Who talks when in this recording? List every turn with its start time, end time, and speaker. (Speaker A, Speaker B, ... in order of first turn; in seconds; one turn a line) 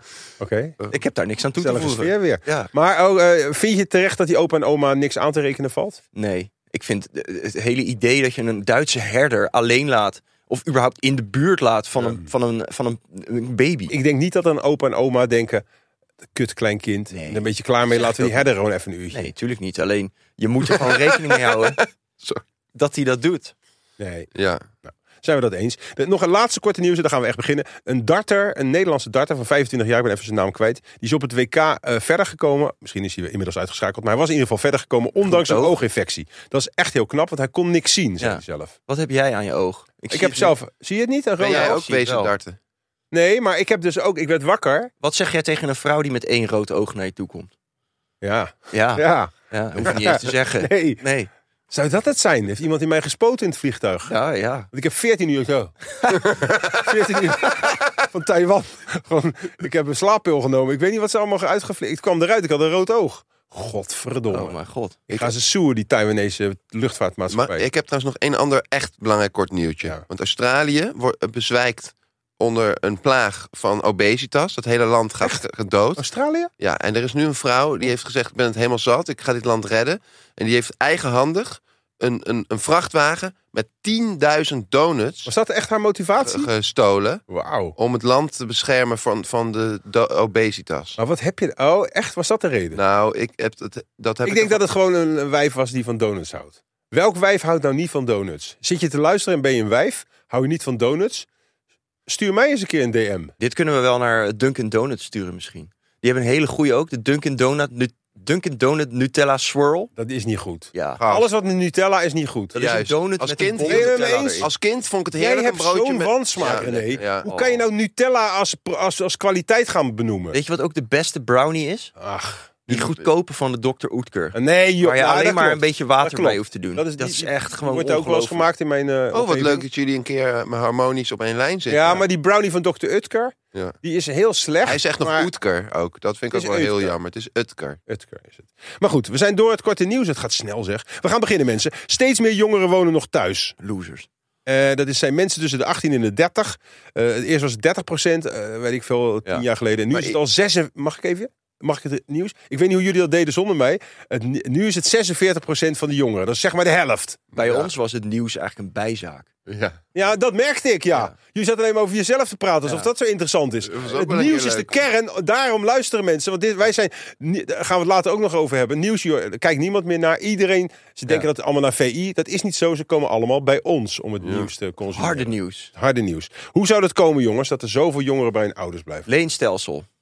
Speaker A: 0.4-0.8
Speaker B: 0.9-2.7
Speaker A: 1.6-6.0
Speaker B: 6.2-13.9
Speaker A: 13.9-15.7
Speaker A: 16.3-19.3
Speaker B: 17.1-18.4
Speaker B: 19.1-21.8
Speaker B: 22.8-23.5
Speaker A: 24.0-24.3
Speaker C: 24.4-24.7
Speaker A: 24.9-38.7
Speaker B: 35.2-35.8
Speaker B: 38.2-40.5
Speaker A: 40.1-41.8
Speaker C: 41.4-42.6
Speaker B: 41.4-42.3
Speaker A: 43.1-44.9
Speaker B: 45.0-47.5
Speaker A: 48.2-51.0
Speaker B: 48.7-51.3
Speaker A: 51.7-54.1
Speaker B: 54.1-54.7
Speaker A: 54.7-64.5
Speaker B: 64.3-65.0
Speaker A: 65.1-67.7
Speaker C: 67.3-76.1
Speaker A: 76.0-76.5
Speaker C: 76.6-85.3
Speaker A: 85.3-86.5
Speaker C: 86.2-87.2
Speaker A: 87.3-87.8
Speaker C: 87.8-91.0
Speaker A: 91.0-92.8
Speaker C: 92.7-94.7
Speaker A: 94.2-101.3
Speaker A: 102.1-103.3
Speaker B: 103.4-109.9
Speaker A: 110.0-112.6
Speaker B: 110.7-111.0
Speaker C: 111.0-111.3
Speaker B: 112.5-114.5
Speaker C: 112.6-117.3
Speaker A: 113.6-114.5
Speaker A: 115.1-120.4
Speaker B: 116.4-117.6
Speaker B: 120.3-121.9
Speaker A: 122.0-122.5
Speaker B: 122.7-128.5
Speaker C: 122.7-123.0
Speaker A: 124.3-129.7
Speaker C: 129.1-132.0
Speaker A: 131.7-135.3
Speaker C: 134.6-137.8
Speaker A: 136.3-136.9
Speaker A: 137.9-143.6
Speaker B: 143.6-144.1
Speaker A: 144.5-157.3
Speaker C: 157.3-157.7
Speaker B: 157.3-159.3
Speaker C: 159.5-159.8
Speaker A: 159.9-179.1
Speaker C: 163.6-164.7
Speaker C: 174.2-174.5
Speaker B: 174.9-175.7
Speaker B: 179.1-179.9